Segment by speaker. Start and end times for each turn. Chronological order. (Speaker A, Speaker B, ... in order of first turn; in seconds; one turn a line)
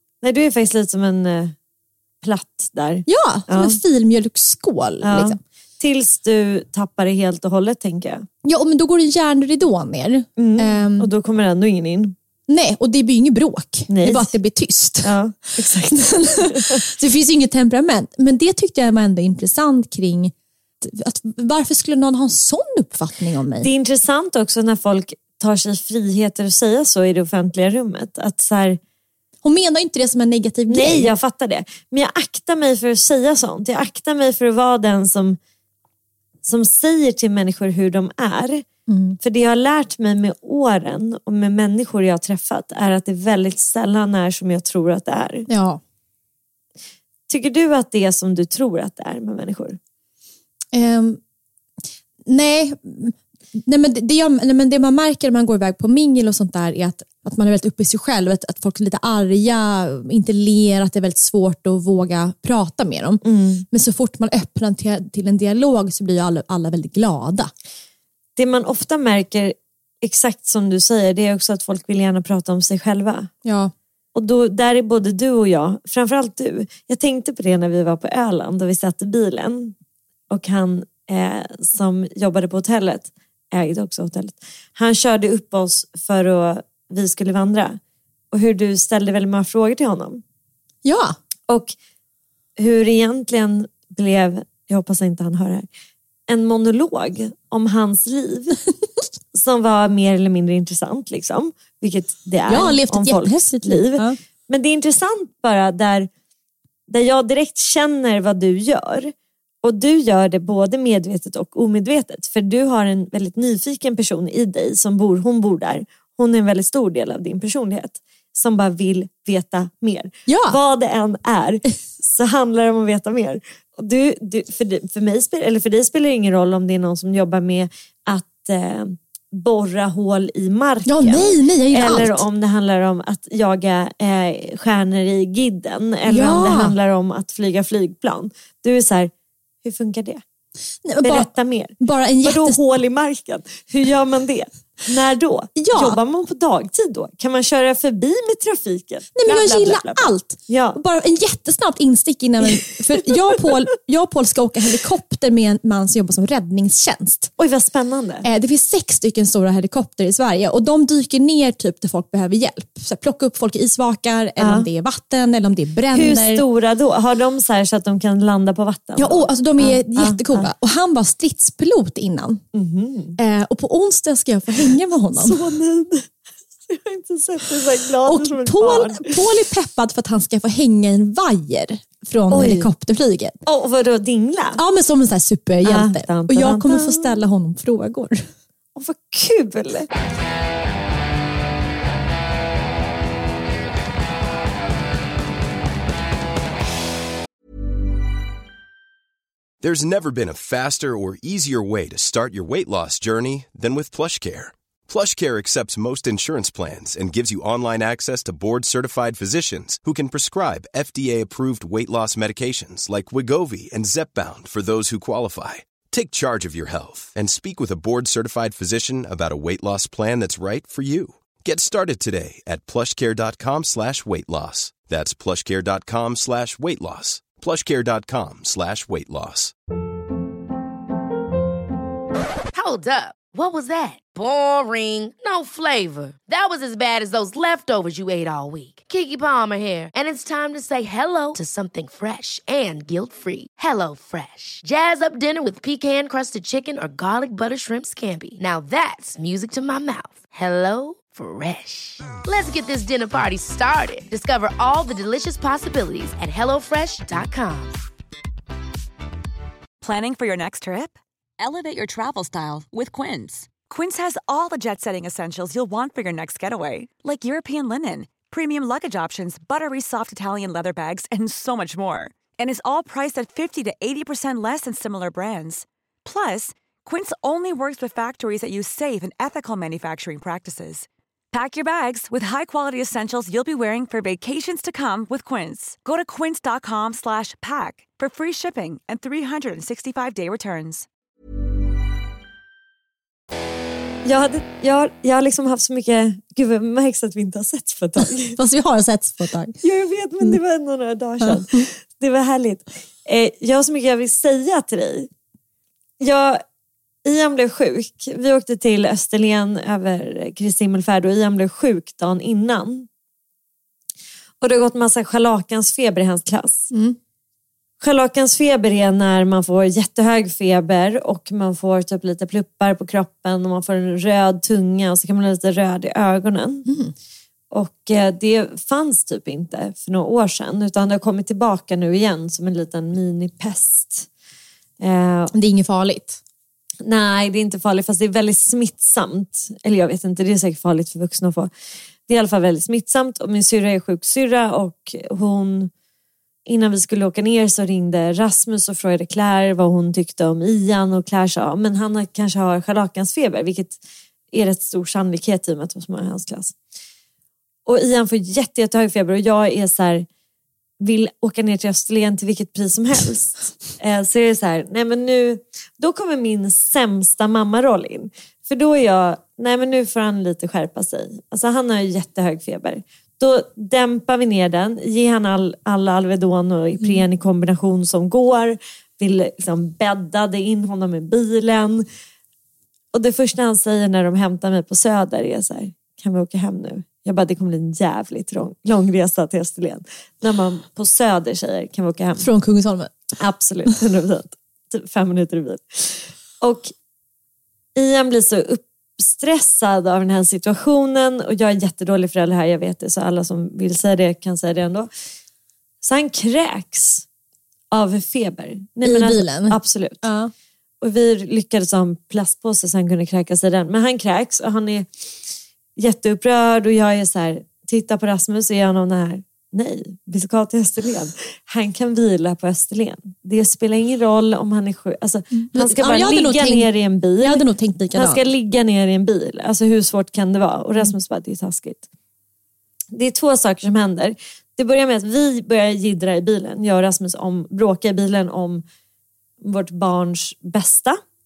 Speaker A: 0.2-1.5
Speaker A: 2.2-3.8
Speaker B: 3.0-5.4
Speaker A: 5.0-8.2
Speaker B: 8.4-11.1
Speaker A: 10.4-12.1
Speaker B: 12.5-23.7
Speaker A: 13.9-14.3
Speaker A: 15.0-16.8
Speaker A: 23.6-28.8
Speaker B: 29.4-31.1
Speaker A: 30.7-35.4
Speaker A: 36.4-38.6
Speaker B: 38.9-39.2
Speaker A: 39.2-45.5
Speaker B: 45.5-45.8
Speaker A: 47.3-49.8
Speaker B: 50.7-51.2
Speaker B: 52.2-67.5
Speaker A: 63.2-63.6
Speaker A: 68.3-73.3
Speaker B: 73.4-73.7
Speaker A: 74.1-79.7
Speaker A: 80.3-87.8
Speaker A: 88.3-90.2
Speaker B: 90.8-91.2
Speaker A: 91.5-91.7
Speaker A: 92.6-95.7
Speaker A: 96.3-98.6
Speaker A: 99.3-106.1
Speaker B: 102.5-104.2
Speaker A: 106.9-139.1
Speaker B: 120.3-120.6
Speaker B: 130.8-132.2
Speaker B: 136.1-136.7
Speaker A: 139.6-140.2
Speaker B: 140.8-142.6
Speaker A: 141.0-150.8
Speaker B: 145.6-146.0
Speaker B: 149.1-157.3
Speaker A: 157.4-158.2
Speaker B: 158.2-166.4
Speaker A: 164.4-164.7
Speaker A: 165.9-170.5
Speaker B: 169.0-172.4
Speaker A: 172.5-173.2
Speaker B: 173.2-175.4
Speaker A: 175.2-176.1
Speaker A: 176.7-179.2
Speaker B: 178.0-183.4
Speaker A: 182.3-182.7
Speaker A: 183.4-184.6
Speaker B: 184.6-188.3
Speaker A: 185.6-187.1
Speaker A: 188.7-189.9
Speaker C: 199.6-229.5
Speaker D: 232.5-257.8
Speaker E: 259.8-290.9
Speaker A: 294.0-298.4
Speaker B: 298.0-299.6
Speaker A: 299.6-305.1
Speaker B: 301.2-301.6
Speaker A: 306.0-306.4
Speaker A: 307.0-312.9
Speaker A: 314.4-316.7
Speaker B: 316.7-317.0
Speaker A: 317.8-326.6
Speaker B: 326.6-326.9
Speaker A: 327.5-334.1
Speaker A: 334.8-335.3
Speaker B: 335.3-336.2
Speaker A: 336.8-341.5
Speaker A: 342.1-345.7
Speaker A: 346.4-353.8
Speaker A: 354.3-356.5
Speaker A: 357.6-360.1
Speaker A: 360.8-381.9
Speaker A: 382.9-392.3
Speaker B: 392.2-392.9
Speaker A: 393.2-396.7
Speaker A: 397.8-404.9
Speaker A: 405.8-407.0
Speaker A: 407.7-410.0
Speaker B: 408.8-410.3
Speaker A: 410.8-414.9
Speaker A: 415.8-431.8
Speaker B: 425.4-428.2
Speaker A: 432.9-438.6
Speaker A: 439.4-441.0